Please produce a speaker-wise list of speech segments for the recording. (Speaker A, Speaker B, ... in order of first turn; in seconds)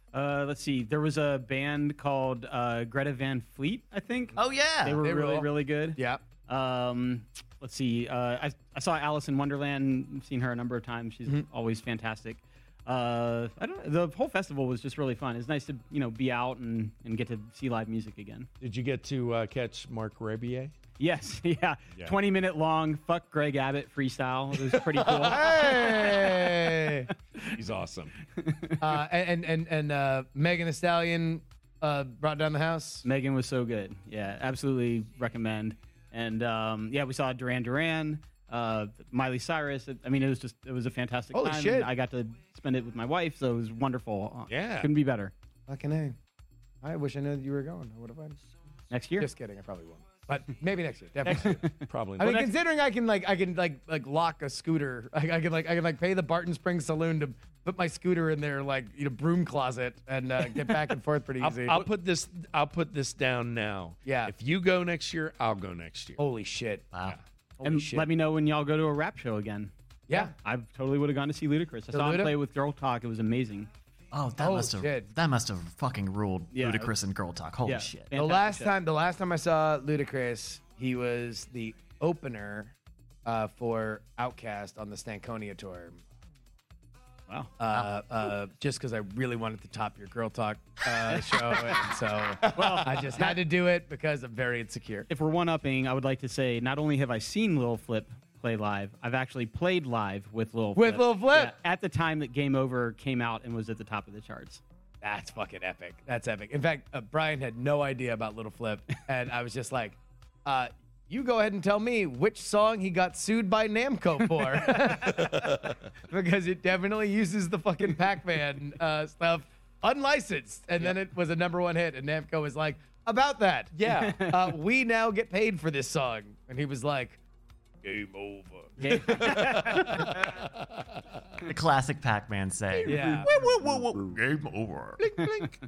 Speaker A: 0.1-18.5, 21.0-26.1, 28.4-28.8, 33.0-45.3, 48.9-49.3, 51.4-51.8, 67.6-73.7, 76.5-76.9, 77.6-78.7, 92.5-93.3, 95.1-104.6, 124.1-124.4, 128.8-130.3
Speaker B: 4.4-5.0, 66.9-67.2, 74.1-78.1, 131.4-135.5
Speaker C: 5.0-6.2, 25.2-27.1, 28.8-33.0, 41.3-41.9, 45.7-46.1, 46.8-48.4, 49.2-51.6, 52.2-61.9, 64.0-64.3, 66.2-66.9, 67.6-68.1, 70.1-70.3, 71.9-72.3, 74.4-75.1, 78.1-82.7, 83.2-86.0, 87.6-95.1, 100.8-101.5, 105.0-127.2, 127.8-129.9, 132.9-133.3
Speaker D: 18.6-20.7, 24.8-26.4, 27.4-28.1, 44.5-44.9, 51.2-52.5, 61.4-66.2, 115.0-115.7, 123.7-124.2, 129.1-131.0, 132.7-134.2, 135.1-135.4